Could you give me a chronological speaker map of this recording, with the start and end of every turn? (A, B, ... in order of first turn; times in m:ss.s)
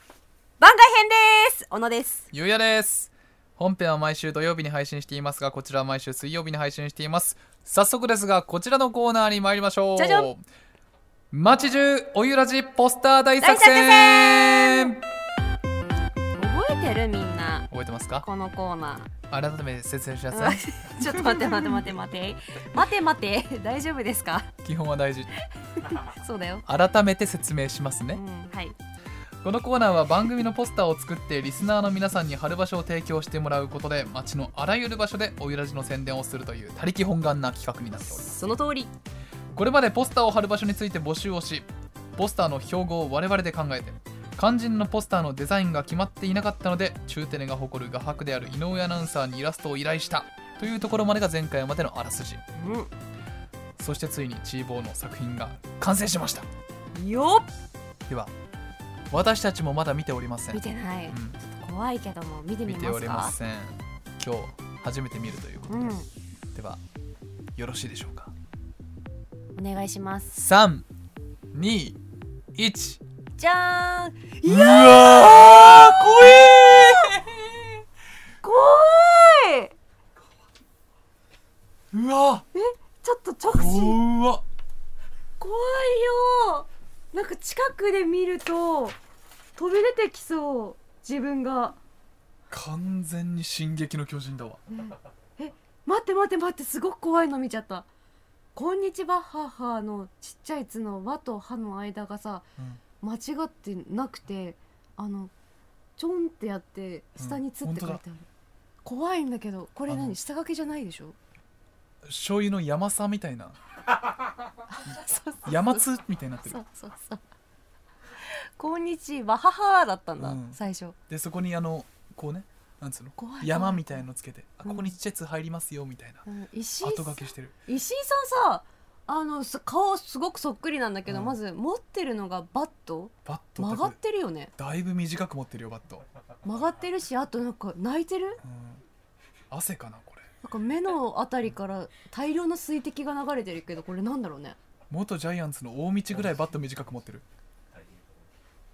0:00.6-0:02.3 A
0:02.3-0:10.4 B
0:10.0-0:10.3 A
0:11.3-0:15.0 B
0:13.4-0:14.9 A
0:16.4-0:17.7 A
0:17.7-0:18.3 B
0:18.2-0:19.1 A
0:19.3-0:21.6 B
0:20.3-0:24.5 A
0:24.6-0:25.3 B
0:25.8-0:26.6 A
0:26.6-0:28.2 B
0:28.1-0:28.8 A
0:29.4-0:38.4 B
0:38.2-0:38.9 A
0:39.5-0:52.4 B
0:52.6-0:52.9 A
0:53.8-0:56.5 B
0:56.9-0:57.5 A
0:59.1-1:01.4 B
1:00.5-1:03.3 A
1:02.6-1:06.0 B
1:05.7-1:06.1 A
1:06.5-1:06.8 B
1:07.6-1:08.3 B
1:09.5-1:10.4 A
1:10.4-1:10.8 B
1:11.5-1:12.0 B
1:12.5-1:13.0 B
1:13.4-1:17.1 A
1:14.4-1:17.4 B
1:18.4-1:19.8 A
1:21.9-1:22.4 B
1:22.5-1:24.0 A
1:23.4-1:24.4 B
1:25.4-1:29.0 A
1:29.6-1:31.8 A
1:32.5-1:34.6 B
1:34.8-1:37.9 A
1:38.5-1:42.4 A
1:43.0-1:45.3 A
1:46.0-1:48.3 A
1:47.2-1:48.0 B
1:48.8-1:51.2 A
1:49.9-1:50.2 B
1:52.0-1:53.6 B
1:54.7-1:55.8 A
1:55.4-1:56.6 B
1:56.5-1:57.2 A
1:58.2-2:01.0 A
2:00.2-2:06.2 B
2:03.2-2:04.0 A
2:04.6-2:04.9 A
2:06.2-2:14.5 A
2:06.8-2:07.5 B
2:11.0-2:11.4 B
2:13.2-2:14.0 B
2:14.6-2:16.0 B
2:16.4-2:18.4 A
2:18.4-2:18.8 B
2:19.5-2:20.2 B
2:20.4-2:24.6 A
2:24.9-2:27.2 B